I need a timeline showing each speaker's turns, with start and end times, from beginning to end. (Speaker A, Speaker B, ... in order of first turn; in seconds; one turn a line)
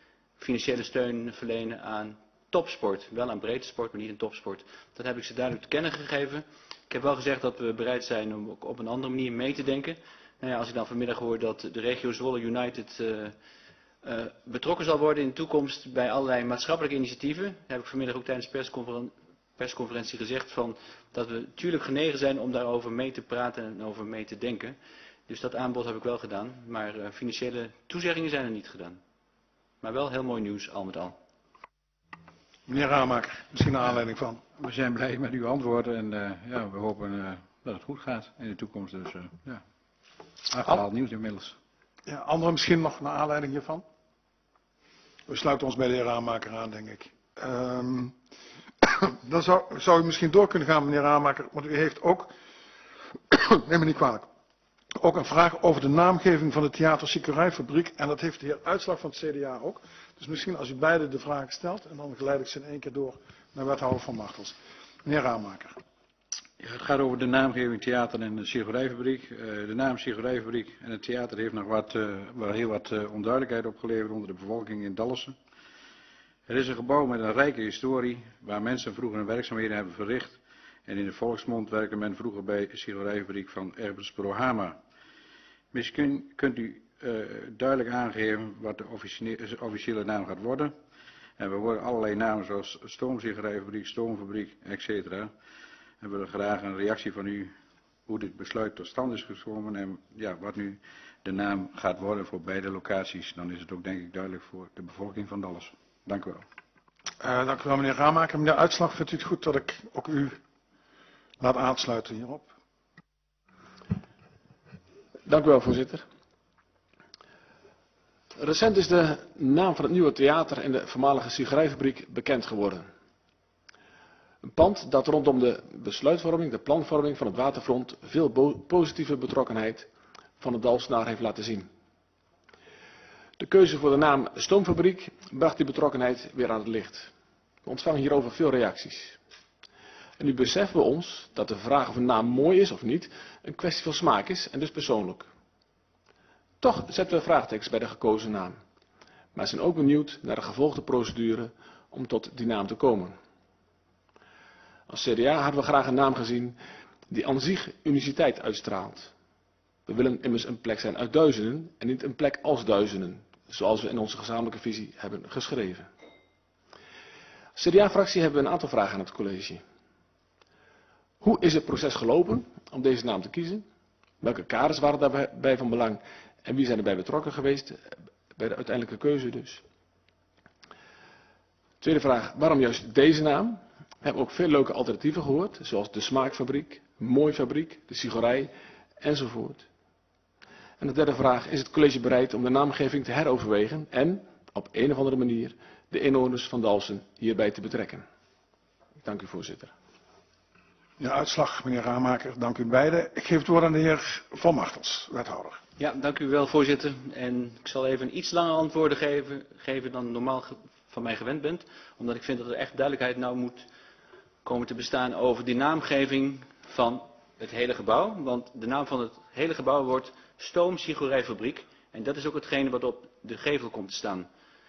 Speaker A: 0.4-13.4
Speaker A: 14.0-29.0
Speaker A: 29.8-31.2
Speaker B: 32.7-34.5
Speaker C: 34.5-39.6
Speaker C: 40.5-41.6
Speaker B: 42.1-43.9
Speaker B: 45.3-48.2
Speaker B: 48.8-52.3
Speaker B: 53.3-54.3
Speaker B: 55.0-65.8
Speaker C: 66.6-75.4
Speaker C: 76.5-84.8
Speaker C: 85.7-90.7
Speaker C: 91.4-95.3
Speaker C: 96.0-97.5
Speaker C: 98.1-106.5
Speaker B: 107.2-110.4
Speaker B: 111.4-112.5
Speaker D: 115.2-116.1
Speaker D: 118.4-122.9
Speaker D: 124.4-131.7
Speaker D: 133.4-137.1
Speaker D: 137.6-139.2
Speaker D: 140.2-145.3
Speaker D: 146.6-148.6
Speaker D: 149.3-153.2
Speaker D: 154.9-159.1
Speaker D: 159.9-165.9
Speaker D: 167.6-169.6
Speaker D: 171.2-173.7
Speaker D: 174.2-179.6
Speaker D: 181.8-189.7
Speaker D: 190.8-198.1
Speaker D: 199.0-199.7
Speaker B: 201.0-205.6
Speaker A: 205.8-213.7
Speaker A: 214.4-224.3